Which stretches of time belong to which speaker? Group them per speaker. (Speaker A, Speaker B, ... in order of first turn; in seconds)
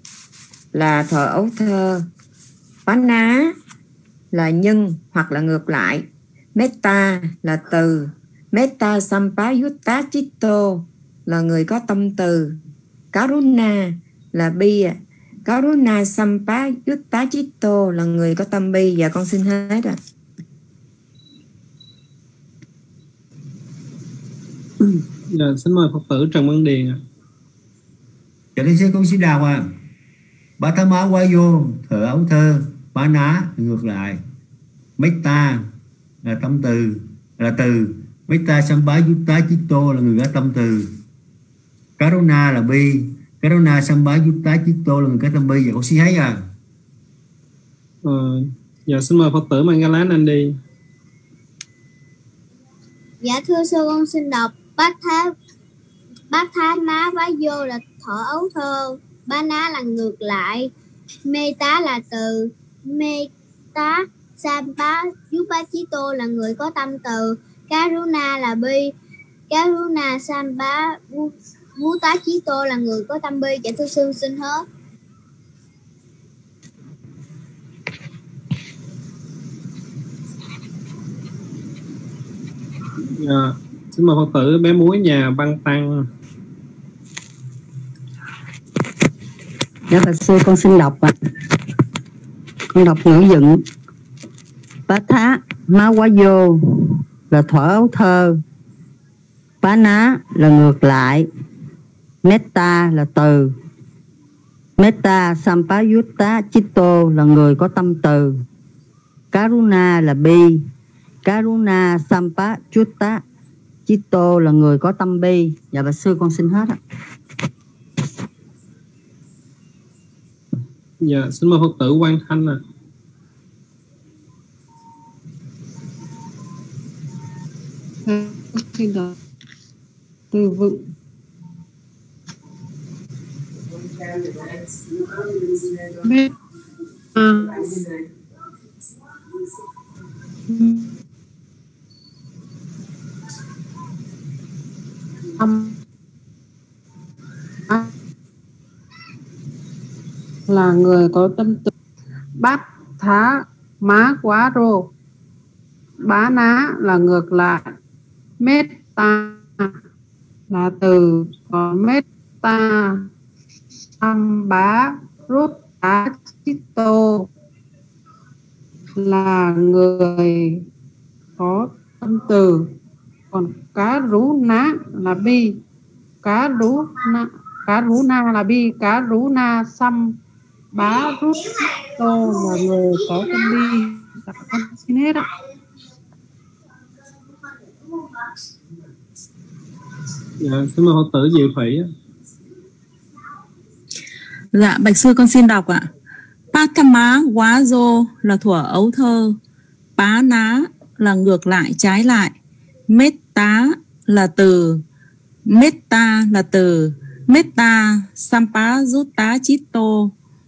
Speaker A: 0.7-2.1, 2.9-3.5, 4.3-12.6, 13.1-20.0
Speaker B: 24.8-27.0, 48.0-50.5, 83.2-86.0, 121.0-122.6, 190.4-191.9
Speaker C: 28.6-29.7, 30.6-34.2, 35.0-35.7, 36.2-40.9, 42.0-46.4
Speaker D: 53.2-55.3, 56.3-60.7, 61.3-68.9, 69.5-74.7
Speaker E: 89.9-91.1, 92.7-93.6, 94.9-98.3, 99.6-101.3, 102.2-103.5, 104.8-108.3, 109.3-110.6, 111.2-113.2, 113.9-116.8
Speaker F: 128.1-129.2, 130.3-130.9, 135.9-136.3, 137.2-137.9, 140.5-140.9, 145.4-145.8, 150.5-151.7, 152.4-154.9, 156.0-157.7, 158.4-159.8, 160.5-163.1, 163.9-167.3, 168.9-170.7, 171.4-172.7, 173.3-175.6, 176.2-180.2, 180.7-185.3
Speaker G: 194.5-195.9, 196.5-199.4, 200.0-202.3, 202.9-204.8, 205.5-210.1